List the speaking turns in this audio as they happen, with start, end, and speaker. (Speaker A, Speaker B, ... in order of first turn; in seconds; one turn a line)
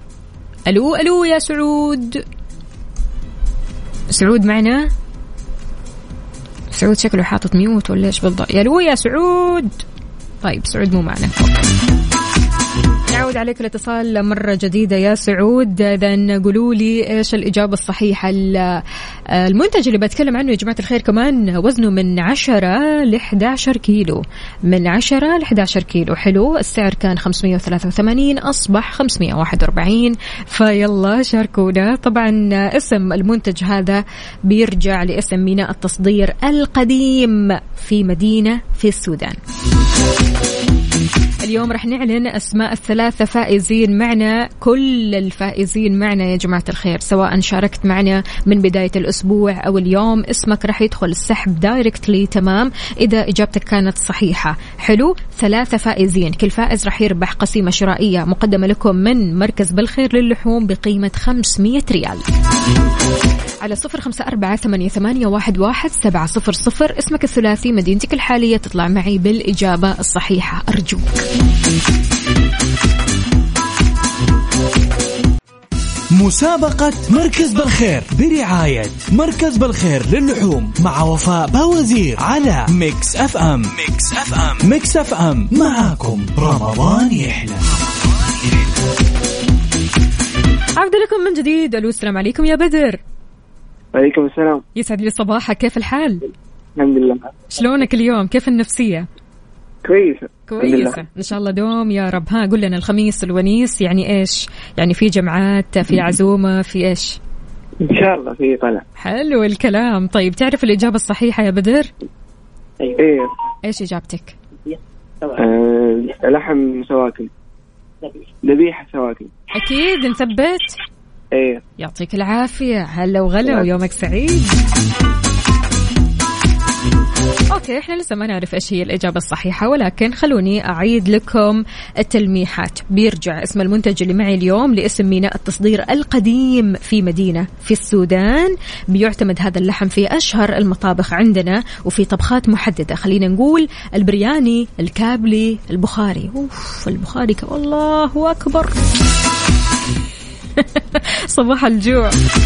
Speaker A: 0.7-2.2
Speaker A: 4.1-4.9
Speaker A: 6.7-9.8
Speaker A: 10.4-11.7
Speaker A: 13.1-39.4
Speaker A: 41.4-62.2
Speaker A: 63.6-71.2
Speaker B: 76.1-87.7
Speaker A: 90.8-93.0
Speaker C: 93.9-94.6
Speaker A: 94.8-96.2
Speaker C: 96.8-97.4
Speaker A: 97.5-99.1
Speaker C: 99.8-101.0
Speaker A: 100.5-107.2
Speaker C: 107.8-108.8
Speaker A: 109.0-111.9
Speaker C: 112.8-113.3
Speaker A: 113.6-114.3
Speaker C: 115.3-117.3
Speaker C: 118.4-119.3
Speaker A: 119.5-120.8
Speaker C: 121.3-121.6
Speaker A: 121.8-124.5
Speaker A: 127.5-148.8
Speaker A: 150.6-152.1